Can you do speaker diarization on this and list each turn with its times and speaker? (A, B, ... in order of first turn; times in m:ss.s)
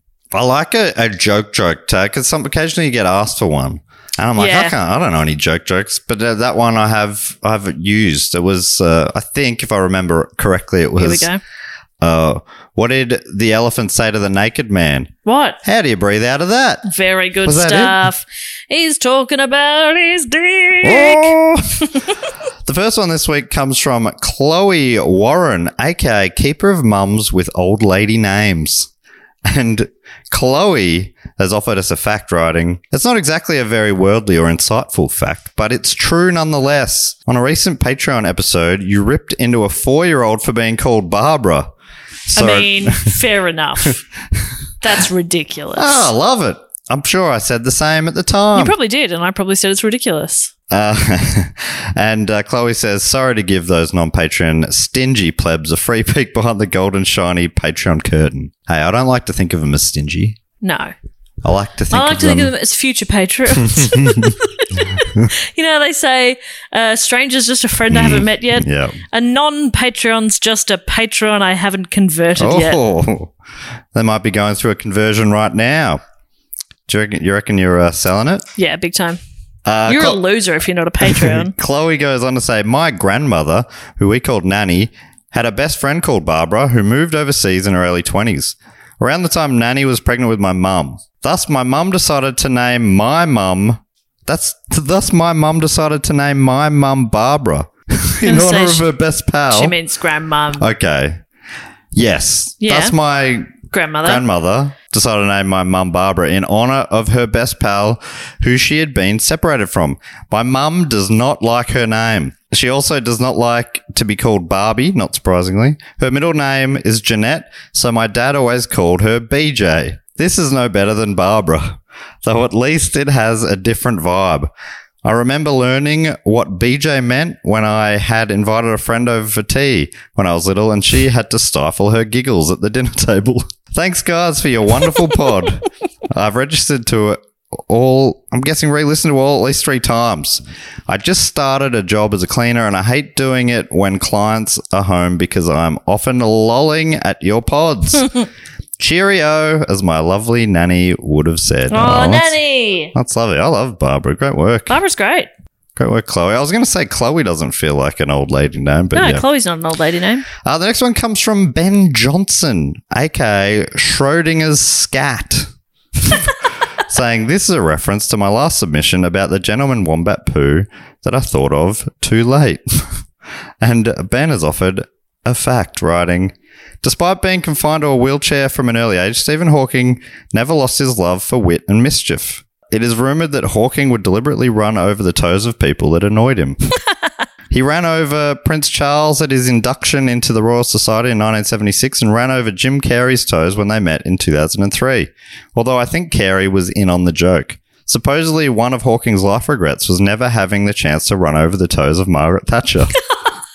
0:00.3-0:11.3 A
0:04.4-0:04.8 B
0:11.0-0:11.4 B
0:12.0-0:15.1 A
0:15.2-0:15.6 B
0:15.6-0:16.9 A
0:16.9-0:21.3 B
0:17.4-0:18.0 A
0:20.8-0:21.9 A
0:22.6-0:28.9 A
0:29.4-0:41.7 A
0:42.3-0:43.1 A
0:42.4-0:44.0 B
0:44.8-0:46.1 B
0:45.8-0:48.8 A
0:48.6-0:50.5 B
0:50.7-1:00.4 A
1:00.6-1:00.9 B
1:01.4-1:02.5 A
1:01.9-1:12.8 B
1:03.7-1:04.4 A
1:07.9-1:09.0 A
1:12.4-1:13.3 A
1:13.9-1:16.0 A
1:16.9-1:18.4 A
1:18.6-1:19.2 B
1:19.7-1:20.2 A
1:19.9-1:21.5 B
1:21.0-1:39.8 A
1:38.2-1:38.8 B
1:39.5-1:40.7 B
1:40.6-1:41.2 A
1:41.9-1:43.5 A
1:42.6-1:43.0 B
1:43.7-1:44.2 B
1:44.0-2:04.5 A
2:05.0-2:28.1 A
2:28.8-2:32.4 A
2:31.7-2:32.9 B
2:32.9-2:34.8 A
2:34.7-2:35.3 B
2:35.8-2:39.2 A
2:38.9-2:40.3 B
2:40.4-2:53.0 A
2:53.6-3:06.7 A
3:07.5-3:22.9 A